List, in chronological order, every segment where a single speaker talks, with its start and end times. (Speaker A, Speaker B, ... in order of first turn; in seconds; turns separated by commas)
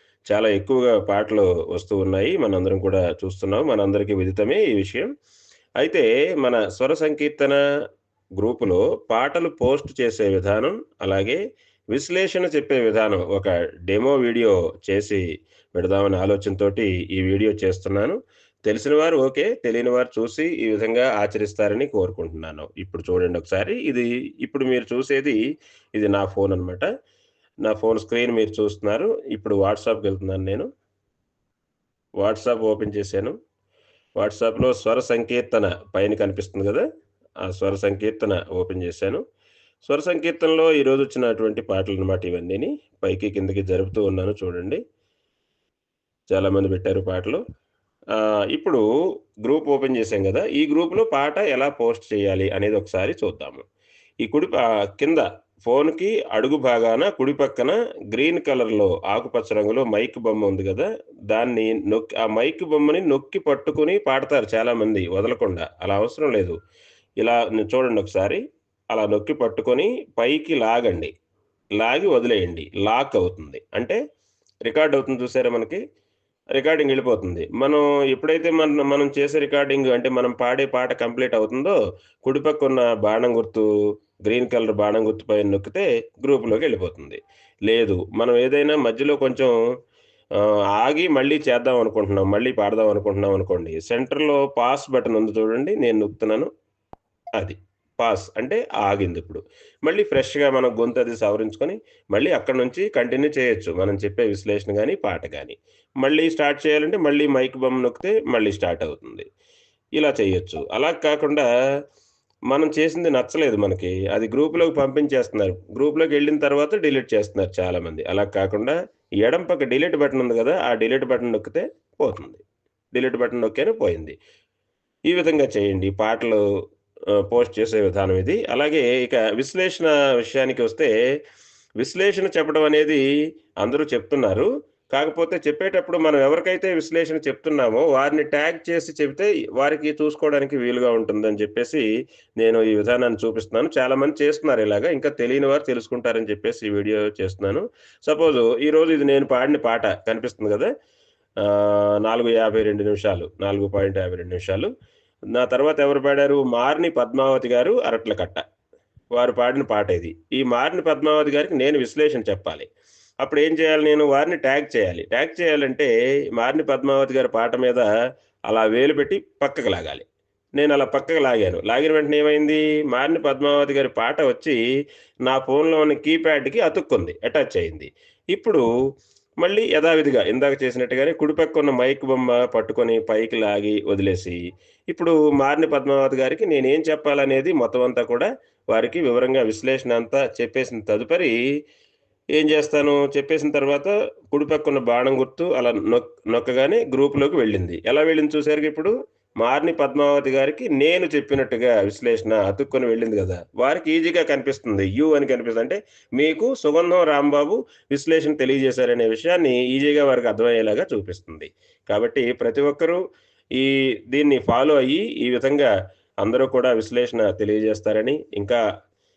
Speaker A: 0.3-5.1, Speaker A: 5.8-7.6, Speaker A: 8.4-11.4, Speaker A: 11.9-25.4, Speaker A: 25.9-26.9, Speaker A: 27.6-30.7, Speaker A: 32.2-33.4, Speaker A: 34.2-36.8, Speaker A: 37.4-39.2, Speaker A: 39.8-44.8, Speaker A: 46.3-47.4, Speaker A: 48.1-48.8, Speaker A: 49.4-53.6, Speaker A: 54.2-66.5, Speaker A: 67.2-71.1, Speaker A: 71.8-74.0, Speaker A: 74.7-75.8, Speaker A: 76.5-83.7, Speaker A: 84.2-89.5, Speaker A: 90.8-96.5, Speaker A: 97.4-109.2, Speaker A: 110.0-111.5, Speaker A: 112.5-122.4, Speaker A: 122.9-124.2, Speaker A: 125.1-126.4, Speaker A: 127.3-130.9, Speaker A: 131.8-133.0, Speaker A: 133.6-141.8, Speaker A: 142.4-150.7, Speaker A: 151.4-154.7, Speaker A: 155.3-158.4, Speaker A: 159.2-162.7, Speaker A: 163.2-167.9, Speaker A: 168.5-170.0, Speaker A: 170.6-174.6, Speaker A: 175.3-178.7, Speaker A: 179.4-191.3, Speaker A: 192.3-213.0, Speaker A: 213.5-215.7, Speaker A: 216.2-218.6